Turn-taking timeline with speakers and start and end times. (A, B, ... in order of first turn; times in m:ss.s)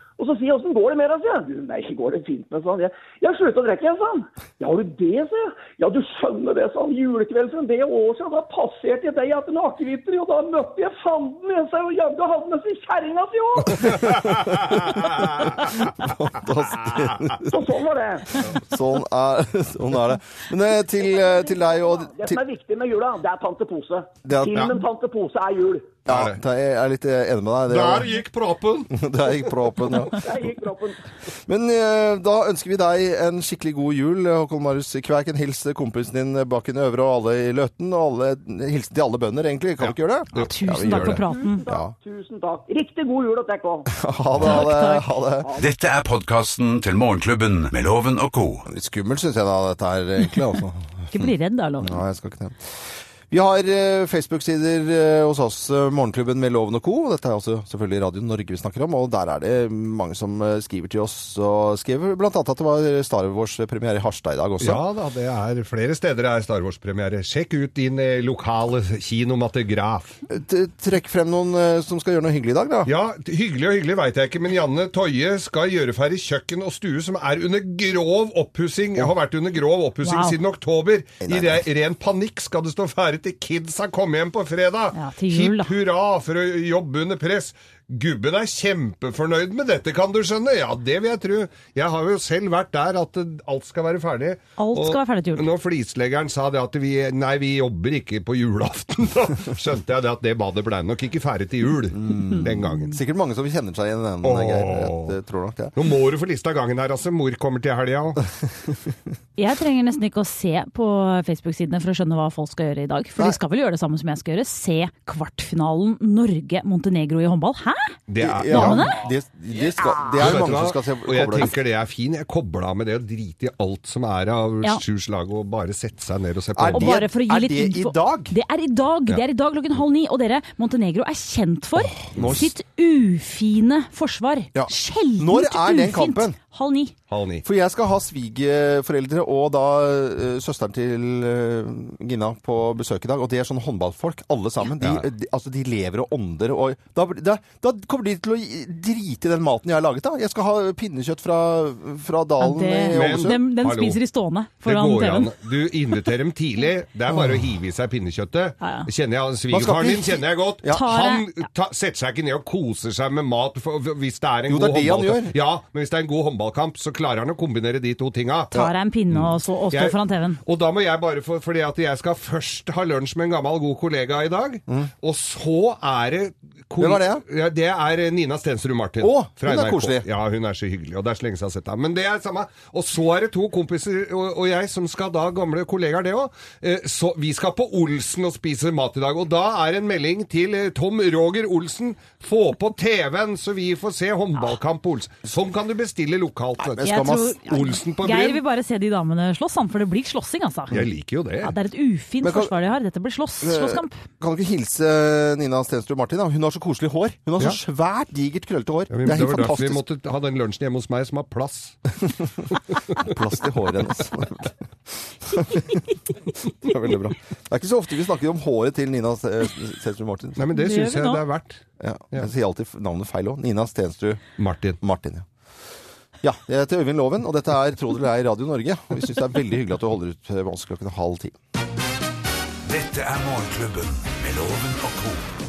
0:00.2-0:14.1 A
0:13.9-0:15.7 B
0:14.0-0:17.5 C
0:16.7-0:17.2 B
0:17.4-0:18.4 A
0:18.4-0:22.4 C
0:21.1-0:26.0 A
0:24.2-0:24.7 C
0:26.0-0:28.1 C
0:26.1-0:26.4 B
0:27.7-0:28.9 B
0:28.9-0:30.3 C
0:30.1-0:31.0 A
0:31.5-0:41.9 C
0:39.8-0:41.2 B
0:40.3-0:41.6 D
0:41.3-0:43.9 A
0:43.9-0:45.5 C
0:44.4-0:45.1 D
0:45.4-0:45.7 A
0:45.6-0:48.6 E
0:48.7-1:04.8 C
0:51.1-0:52.0 D
1:04.6-1:10.2 B
1:10.3-1:12.9 C
1:12.8-1:42.9 B
1:20.0-1:20.3 D
1:21.2-1:21.6 C
1:24.9-1:25.7 D
1:34.6-1:35.5 D
1:41.9-1:45.7 C
1:42.3-1:42.8 D
1:44.2-1:45.1 B
1:45.7-1:48.2 B
1:49.4-1:58.0 D
1:58.1-1:59.0 B
1:58.2-2:01.6 C
1:58.5-1:59.0 D
1:59.8-2:00.1 D
2:00.2-2:06.9 B
2:06.6-2:08.4 C
2:06.7-2:16.9 D
2:12.0-2:12.5 C
2:14.5-2:16.4 C
2:17.1-2:17.4 B
2:17.4-2:33.4 C
2:24.8-2:25.0 B
2:32.4-2:35.3 D
2:32.9-2:34.0 B
2:34.6-2:48.5 B
2:38.6-2:38.9 D
2:39.5-2:40.8 C
2:40.7-2:41.5 D
2:44.5-2:45.3 C
2:48.5-2:50.4 D
2:49.1-3:16.9 B
2:56.8-2:57.2 C
2:59.0-3:00.0 C
3:16.6-3:17.3 C
3:16.8-3:20.8 D
3:17.5-3:18.4 B
3:20.7-3:21.5 B
3:21.4-3:24.0 D
3:22.2-3:22.5 C
3:23.4-3:29.8 C
3:28.9-3:31.8 B
3:32.9-3:34.5 C
3:35.2-3:35.8 C
3:36.6-3:40.4 C
3:40.4-3:41.6 B
3:40.5-3:41.2 D
3:41.8-3:44.2 C
3:44.4-3:44.8 B
3:44.8-3:45.3 C
3:46.2-3:51.4 C
3:52.6-3:55.3 E